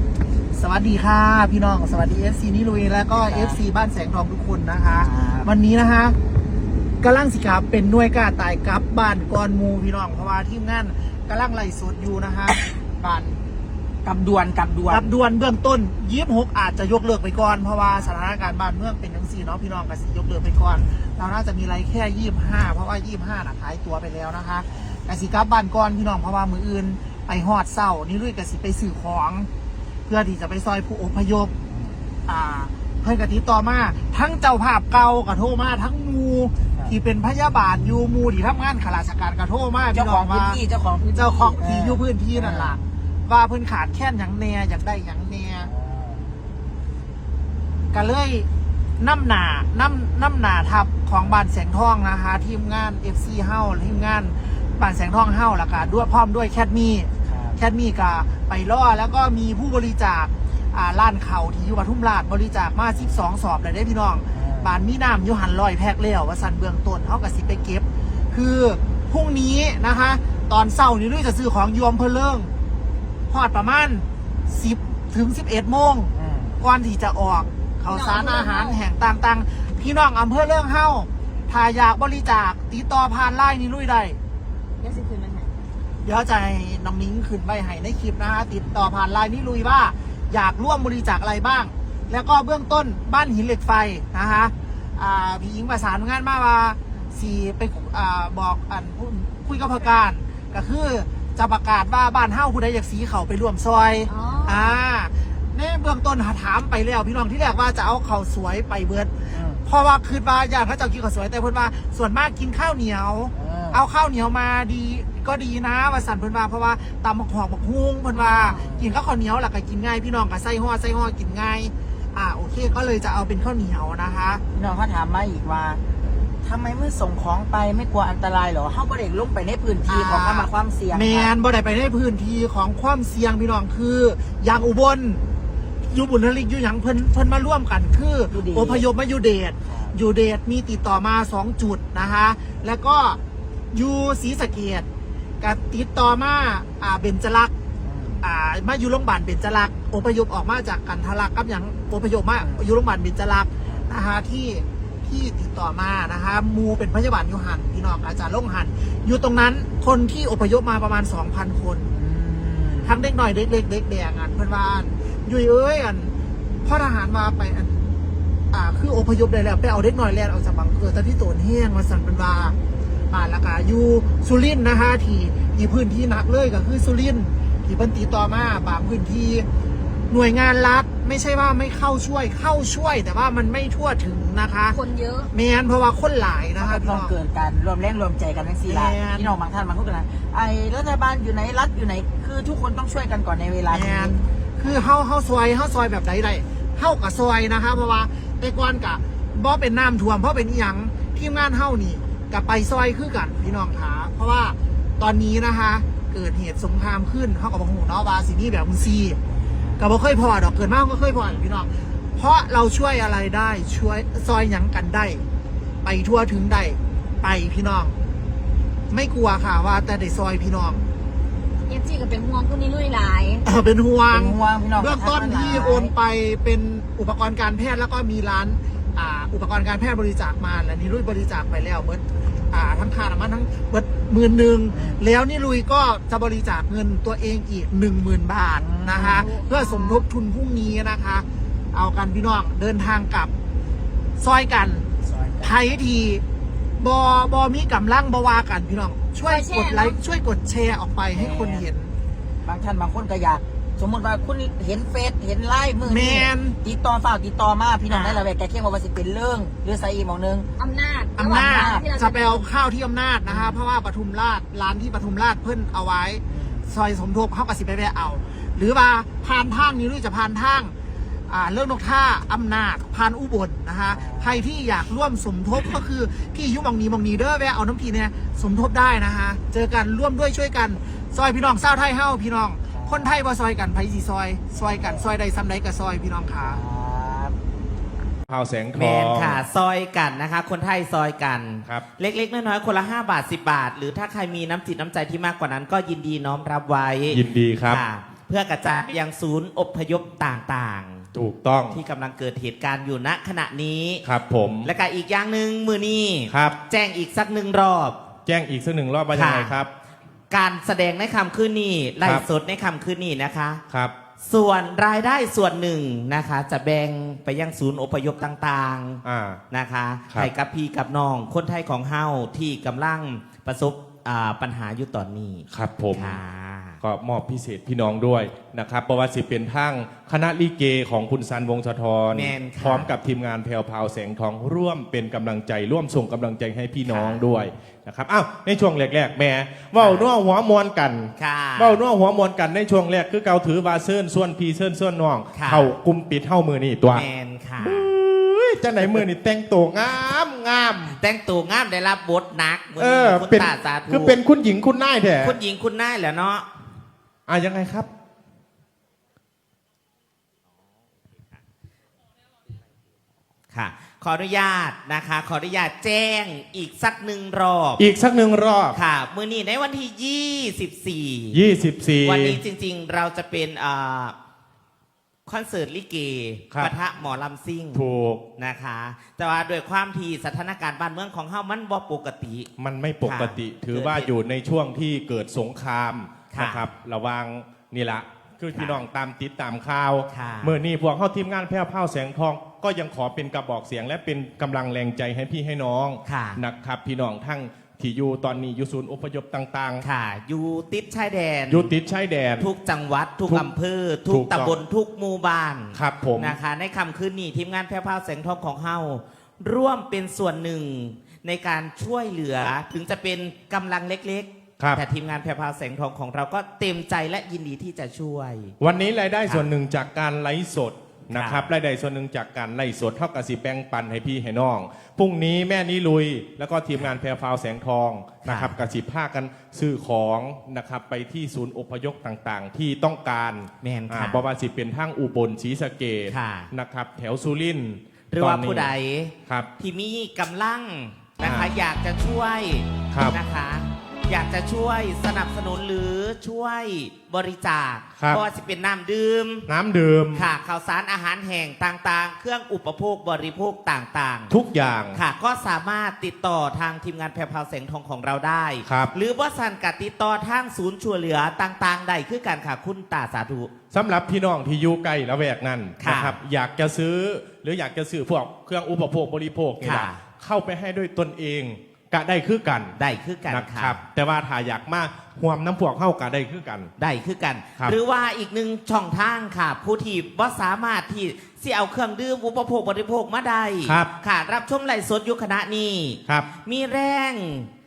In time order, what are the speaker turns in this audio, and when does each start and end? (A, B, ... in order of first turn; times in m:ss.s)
0:00.5-0:06.2 A
0:03.1-0:03.6 B
0:04.8-0:05.5 B
0:07.0-0:13.4 A
0:14.0-0:15.1 B
0:14.9-0:29.5 A
0:17.8-0:18.2 B
0:24.7-0:25.0 B
0:30.1-0:31.5 A
0:31.7-0:31.9 B
0:32.3-0:40.6 A
0:39.9-0:42.8 B
0:41.1-0:45.7 A
0:45.6-0:46.3 B
0:47.9-0:48.5 A
0:49.0-1:12.5 A
0:57.2-0:57.6 B
1:02.9-1:03.3 B
1:04.3-1:04.8 B
1:13.3-1:24.2 A
1:16.1-1:16.6 B
1:17.9-1:18.8 C
1:24.8-1:25.6 C
1:26.0-2:04.4 A
1:44.1-1:44.6 C
1:49.3-1:49.7 B
1:53.4-1:53.8 B
1:58.4-1:58.9 B
2:04.5-2:05.8 B
2:06.4-2:11.3 B
2:09.9-2:15.2 A
2:15.9-2:23.2 A
2:18.3-2:18.9 B
2:19.6-2:20.0 B
2:23.7-2:24.8 A
2:25.4-2:27.5 A
2:27.8-2:28.2 B
2:28.2-2:41.9 A
2:32.3-2:32.7 B
2:33.6-2:33.9 B
2:41.9-2:43.0 B
2:42.8-2:46.1 A
2:46.6-2:47.9 A
2:48.5-2:52.6 A
2:53.1-2:59.4 A
3:00.1-3:07.1 A
3:04.7-3:05.3 C
3:06.6-3:14.2 B
3:08.6-3:09.3 A
3:13.7-3:29.2 A
3:29.8-3:35.2 A
3:35.8-3:38.0 A
3:38.9-3:40.8 A
3:41.7-3:43.4 C
3:43.4-4:03.3 A
3:44.1-3:45.9 B
3:54.7-3:55.0 B
3:58.5-3:59.2 B
3:59.2-4:00.0 C
4:04.2-4:04.9 A
4:05.0-4:05.9 B
4:05.4-4:06.2 A
4:06.8-4:11.9 A
4:09.3-4:09.9 C
4:11.1-4:11.7 B
4:12.4-4:20.5 B
4:15.8-4:16.6 A
4:17.9-4:18.2 A
4:20.6-4:22.4 C
4:21.2-4:30.7 A
4:21.5-4:21.9 B
4:23.2-4:23.6 B
4:26.3-4:26.7 B
4:31.3-4:46.6 A
4:33.9-4:34.4 B
4:42.7-4:43.1 B
4:44.6-4:45.1 B
4:46.4-4:47.4 B
4:48.3-4:49.4 D
4:48.7-5:01.1 E
4:57.1-4:57.8 D
5:01.1-5:01.8 D
5:01.7-5:04.0 E
5:04.0-5:04.7 D
5:04.6-5:08.0 E
5:06.3-5:06.6 D
5:08.2-5:09.7 D
5:09.1-5:09.6 E
5:10.3-5:13.6 E
5:12.0-5:12.2 D
5:14.2-5:26.8 E
5:19.0-5:19.4 D
5:25.5-5:26.2 D
5:26.8-5:47.0 D
5:32.1-5:32.9 E
5:36.8-5:37.2 E
5:39.8-5:40.1 E
5:41.2-5:41.8 E
5:45.3-5:45.7 E
5:46.9-5:47.9 E
5:47.6-5:51.0 D
5:48.8-5:49.0 E
5:50.9-5:54.2 E
5:52.8-5:55.4 D
5:55.2-5:56.4 E
5:57.3-5:57.9 D
6:03.5-6:07.8 E
6:07.8-6:08.8 D
6:08.7-6:11.4 E
6:11.3-6:12.4 D
6:12.0-6:14.1 E
6:15.3-6:17.8 E
6:17.7-6:18.2 D
6:18.4-6:22.5 E
6:22.6-6:39.8 D
6:23.0-6:24.1 E
6:26.3-6:26.6 E
6:28.5-6:28.8 E
6:30.1-6:30.6 E
6:36.0-6:36.4 E
6:39.8-6:41.7 E
6:41.5-6:42.5 D
6:42.4-6:58.5 E
6:44.1-6:44.6 D
6:45.7-6:46.4 D
6:58.6-7:18.7 D
6:59.2-6:59.5 E
7:01.1-7:01.5 E
7:08.2-7:08.5 E
7:13.6-7:14.2 E
7:16.1-7:16.5 E
7:18.1-7:29.5 E
7:21.2-7:21.6 D
7:29.5-7:30.3 D
7:30.1-7:34.3 E
7:34.3-7:35.0 D
7:34.9-7:43.5 E
7:38.6-7:38.9 D
7:43.7-7:52.7 D
7:45.8-7:46.2 E
7:49.6-7:50.0 E
7:52.8-7:53.8 E
7:53.3-7:56.7 D
7:56.8-8:07.5 E
8:03.6-8:03.9 D